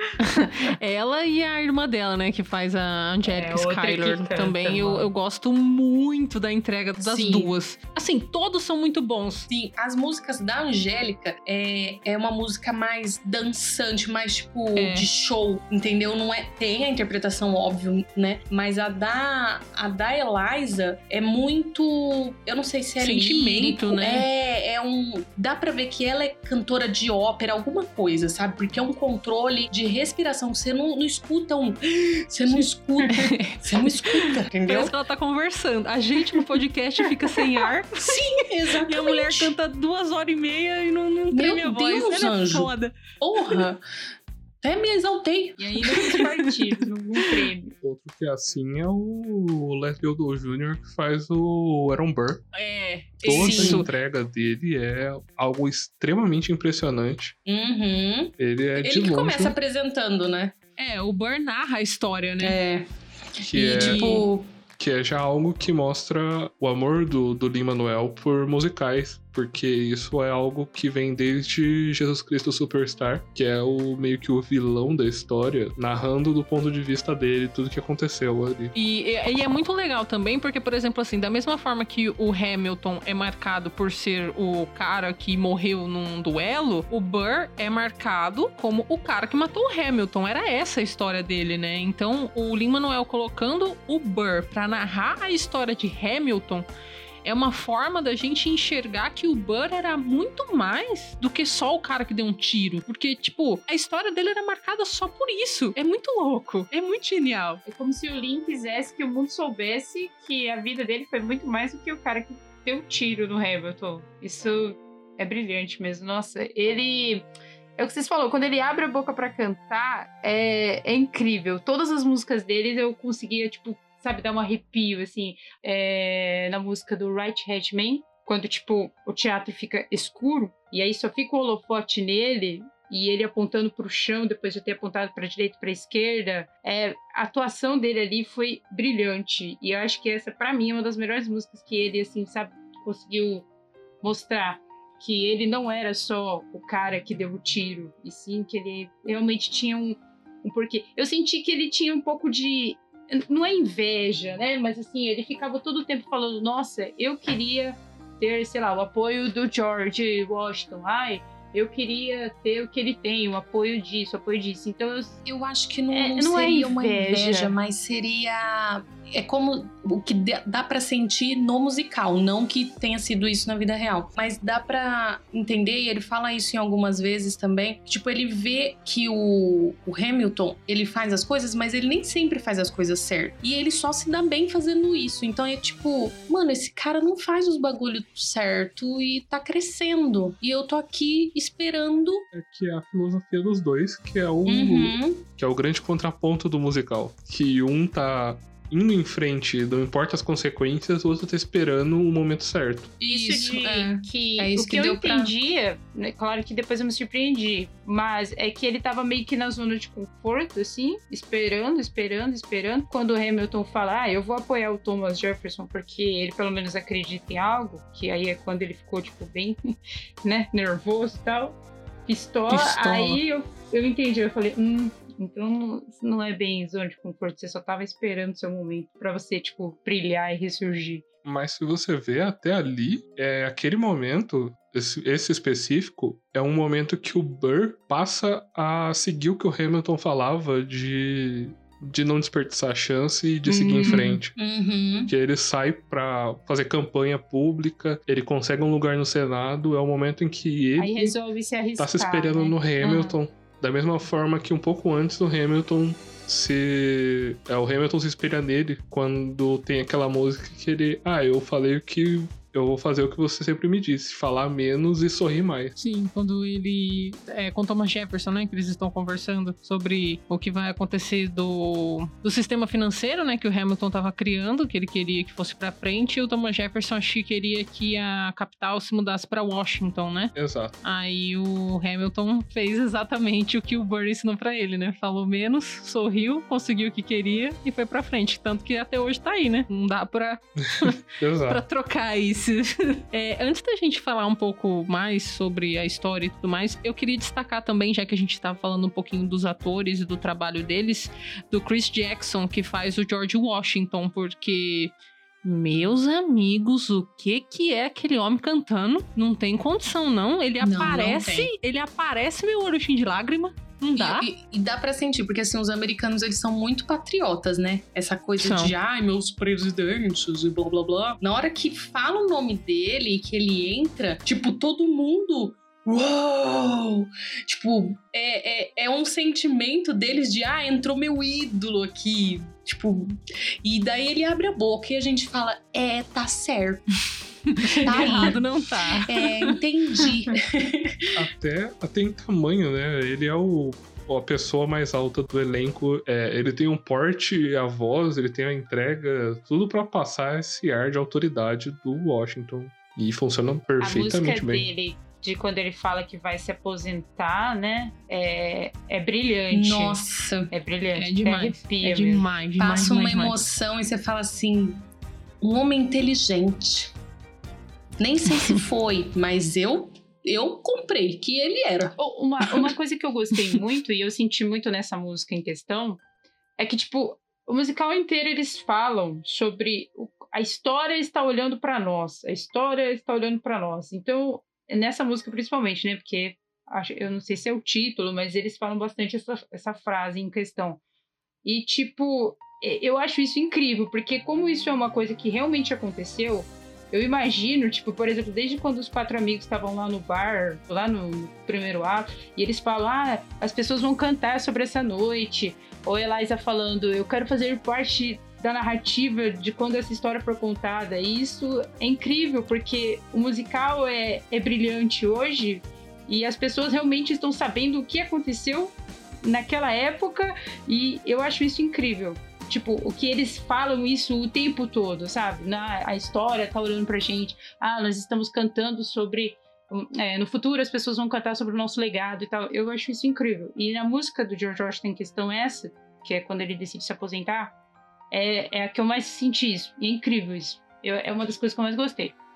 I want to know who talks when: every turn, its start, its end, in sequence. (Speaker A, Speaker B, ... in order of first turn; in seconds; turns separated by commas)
Speaker A: 0.2-9.5, Speaker B: 3.2-5.1, Speaker C: 7.0-7.5, Speaker C: 9.5-34.9, Speaker A: 14.8-15.1, Speaker A: 23.0-24.3, Speaker A: 33.1-33.6, Speaker A: 34.6-38.1, Speaker C: 38.0-39.5, Speaker A: 38.9-43.0, Speaker C: 41.3-43.8, Speaker C: 44.6-46.2, Speaker B: 45.6-47.8, Speaker D: 47.8-52.4, Speaker A: 52.5-53.9, Speaker D: 53.2-57.4, Speaker C: 53.3-53.9, Speaker C: 57.5-60.5, Speaker D: 58.4-59.6, Speaker A: 60.8-62.6, Speaker C: 62.4-64.5, Speaker D: 63.4-64.2, Speaker A: 63.8-64.3, Speaker D: 64.8-78.7, Speaker A: 78.7-96.7, Speaker A: 97.2-107.6, Speaker B: 107.7-143.5, Speaker B: 144.0-165.2, Speaker C: 165.2-192.3, Speaker B: 165.9-167.6, Speaker D: 192.3-202.9, Speaker C: 194.5-195.2, Speaker C: 203.0-205.3, Speaker B: 203.1-231.0, Speaker D: 231.2-244.3, Speaker C: 243.5-245.1, Speaker B: 243.7-244.2, Speaker D: 245.1-251.1, Speaker B: 250.8-253.2, Speaker D: 251.8-265.8, Speaker A: 265.8-314.3, Speaker D: 280.4-280.8, Speaker D: 290.8-291.6, Speaker C: 310.6-311.5, Speaker C: 314.0-336.8, Speaker A: 318.4-318.8, Speaker A: 337.5-339.6, Speaker C: 337.8-338.4, Speaker C: 338.9-341.3, Speaker D: 341.1-354.7, Speaker B: 353.8-362.3, Speaker C: 359.5-360.5, Speaker A: 360.9-363.4, Speaker C: 362.6-364.9, Speaker C: 365.4-366.9, Speaker C: 368.0-372.0, Speaker B: 372.0-376.0, Speaker B: 376.6-390.8, Speaker B: 391.4-437.6, Speaker B: 438.1-442.1